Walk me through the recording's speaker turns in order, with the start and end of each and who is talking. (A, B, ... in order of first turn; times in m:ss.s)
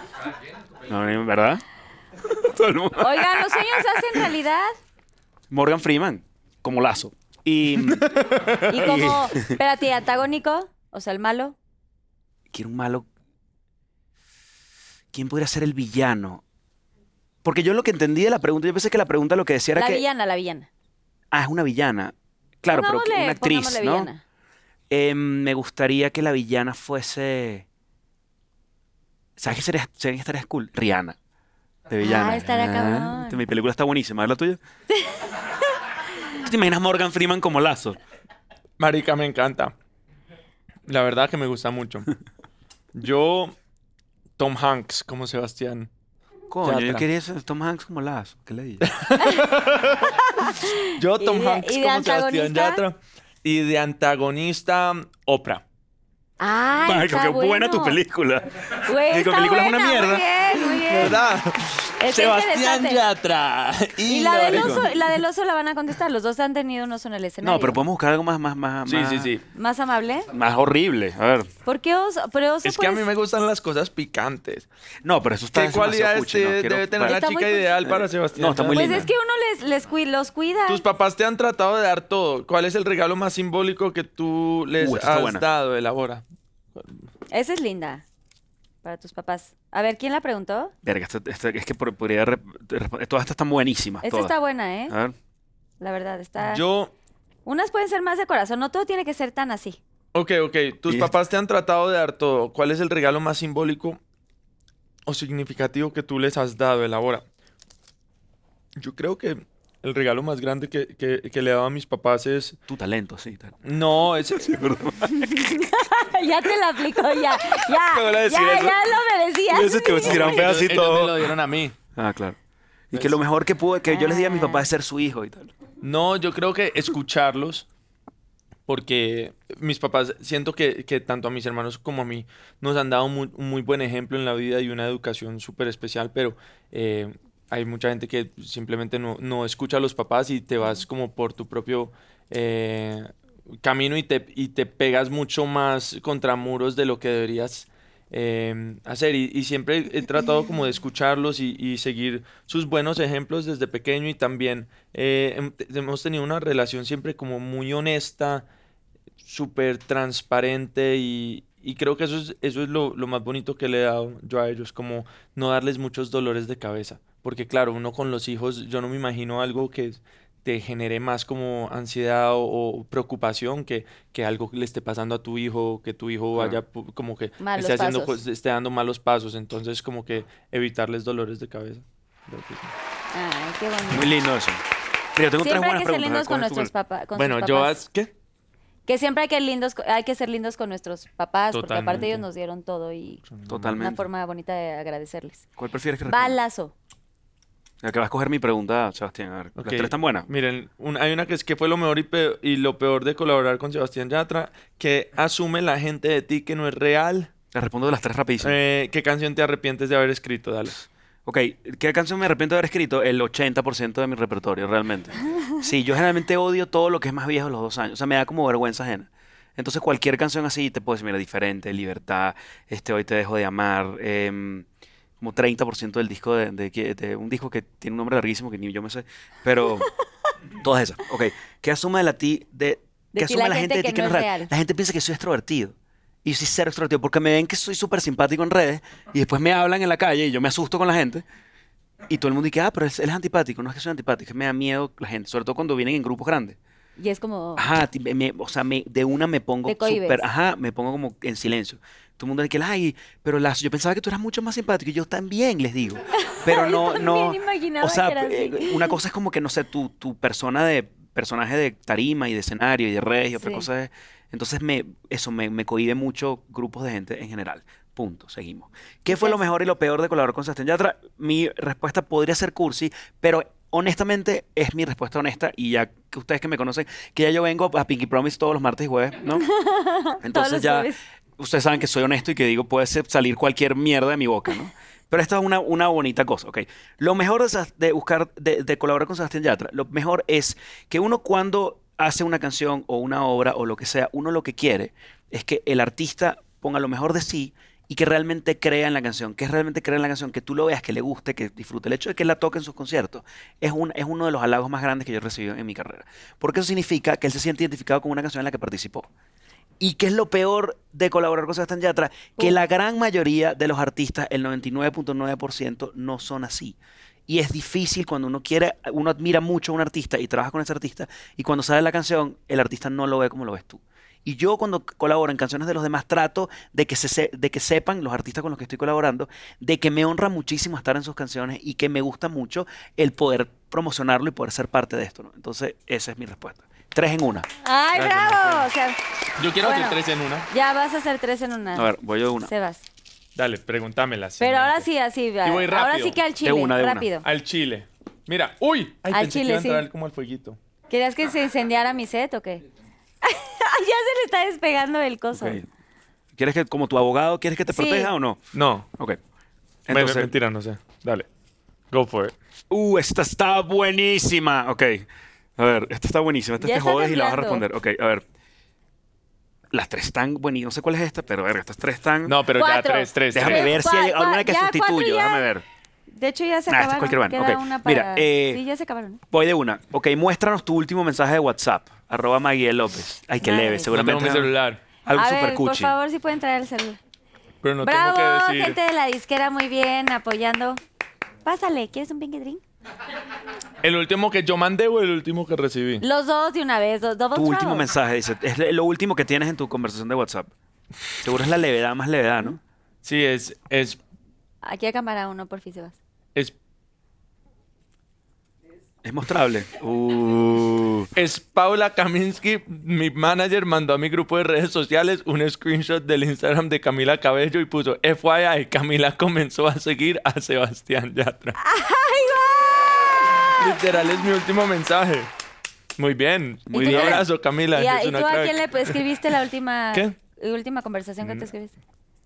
0:00.8-0:01.6 A
0:02.2-0:04.3 A
0:03.0-0:04.8 B
0:05.5-0:08.1 A
0:07.8-0:08.7 C
0:08.7-0:11.6 B
0:08.8-0:09.6 A
0:12.5-0:13.1 A
0:15.1-0:16.4 A
0:17.4-0:20.0 A
0:19.8-0:20.7 B
0:21.3-0:24.1 A
0:22.7-0:24.2 B
0:24.9-0:27.7 A
0:29.4-0:31.2 A
0:31.9-0:34.6 A
0:32.0-0:33.4 B
0:36.4-0:38.0 A
0:38.8-0:39.7 C
0:40.9-0:42.1 C
0:43.0-0:43.5 C
0:44.4-0:45.9 C
0:46.5-0:48.9 A
0:46.6-0:47.0 C
0:48.8-0:50.2 C
0:49.2-0:52.8 B
0:50.9-0:55.6 C
0:56.4-0:58.0 B
0:56.8-1:01.2 A
0:58.8-1:01.2 B
1:01.0-1:05.1 C
1:02.0-1:03.0 B
1:04.1-1:07.8 B
1:04.5-1:04.9 A
1:07.4-1:09.3 A
1:08.9-1:09.4 C
1:09.5-1:10.3 B
1:10.3-1:11.5 A
1:11.6-1:13.0 B
1:12.6-1:14.7 C
1:15.0-1:17.2 A
1:15.5-1:19.1 C
1:17.0-1:17.7 B
1:17.8-1:19.1 A
1:18.7-1:20.8 B
1:20.7-1:26.2 C
1:24.8-1:25.4 A
1:27.3-1:28.0 B
1:28.8-1:30.7 B
1:30.8-1:34.3 A
1:34.0-1:35.0 B
1:34.9-1:35.2 A
1:35.8-1:36.6 B
1:36.4-1:36.9 C
1:37.4-1:39.8 B
1:40.1-1:44.0 C
1:45.1-1:47.2 C
1:48.8-1:52.6 C
1:52.7-1:53.6 A
1:53.6-1:54.6 C
1:54.4-1:55.5 A
1:55.0-2:00.4 B
1:58.0-1:58.7 C
1:58.0-1:58.7 A
1:59.5-2:01.3 A
2:00.0-2:01.8 C
2:02.0-2:02.4 A
2:02.9-2:05.5 A
2:03.9-2:04.7 B
2:05.8-2:07.7 C
2:08.7-2:23.1 C
2:23.6-2:38.5 C
2:39.2-3:02.7 C
2:57.4-2:58.2 B
3:03.1-3:04.1 B
3:03.9-3:04.6 A
3:05.2-3:06.7 A
3:05.4-3:07.8 B
3:07.2-3:08.1 C
3:08.9-3:13.2 B
3:11.5-3:12.2 C
3:13.3-3:13.8 C
3:13.5-3:14.1 A
3:13.8-3:15.4 B
3:15.6-3:16.4 A
3:16.1-3:16.7 B
3:17.8-3:20.3 A
3:19.6-3:27.3 C
3:27.5-3:28.6 A
3:28.4-3:30.8 C
3:31.3-3:44.7 A
3:45.2-3:49.9 A
3:50.6-4:01.2 A
3:53.1-3:54.5 B
4:02.1-4:06.6 A
4:07.0-4:07.6 B
4:07.6-4:39.5 A
4:09.7-4:10.2 B
4:16.2-4:19.0 B
4:23.4-4:23.7 B
4:29.1-4:29.4 B
4:39.4-4:41.0 B
4:40.2-5:09.1 A
5:09.8-5:16.8 A
5:17.3-5:37.5 A
5:37.6-5:39.0 B
5:37.9-5:38.7 C
5:39.4-5:40.5 C
5:39.6-5:41.9 B
5:41.8-5:42.5 A
5:42.4-5:42.8 B
5:43.4-5:44.9 C
5:44.4-5:47.2 B
5:45.4-5:46.2 C
5:46.4-5:47.1 A
5:47.2-5:50.6 C
5:49.1-5:49.8 B
5:50.9-5:52.6 B
5:53.2-5:55.6 B
5:55.3-5:55.6 A
5:56.4-5:59.2 A
5:57.7-5:58.1 B
5:58.5-5:58.9 C
5:59.9-6:00.3 A
5:59.9-6:01.3 C
6:01.9-6:02.3 C
6:02.7-6:08.2 A
6:06.6-6:07.7 B
6:09.7-6:12.4 A
6:12.2-6:13.7 C
6:12.6-6:15.5 B
6:13.3-6:15.6 A
6:16.1-6:19.2 B
6:16.7-6:18.6 A
6:19.3-6:24.5 A
6:23.4-6:23.9 B
6:23.9-6:24.8 C
6:25.1-6:25.9 A
6:25.1-6:27.0 B
6:27.6-6:28.8 C
6:27.8-6:30.8 B
6:31.4-6:32.6 B
6:33.8-6:36.0 C
6:36.0-6:37.9 B
6:37.3-6:40.5 A
6:41.2-6:42.6 A
6:43.0-6:44.0 C
6:44.6-6:46.0 B
6:49.0-6:51.1 A
6:51.2-7:01.6 C
7:01.6-7:03.5 B
7:03.6-7:05.3 C
7:06.0-7:09.0 C
7:06.7-7:07.3 A
7:06.7-7:11.8 B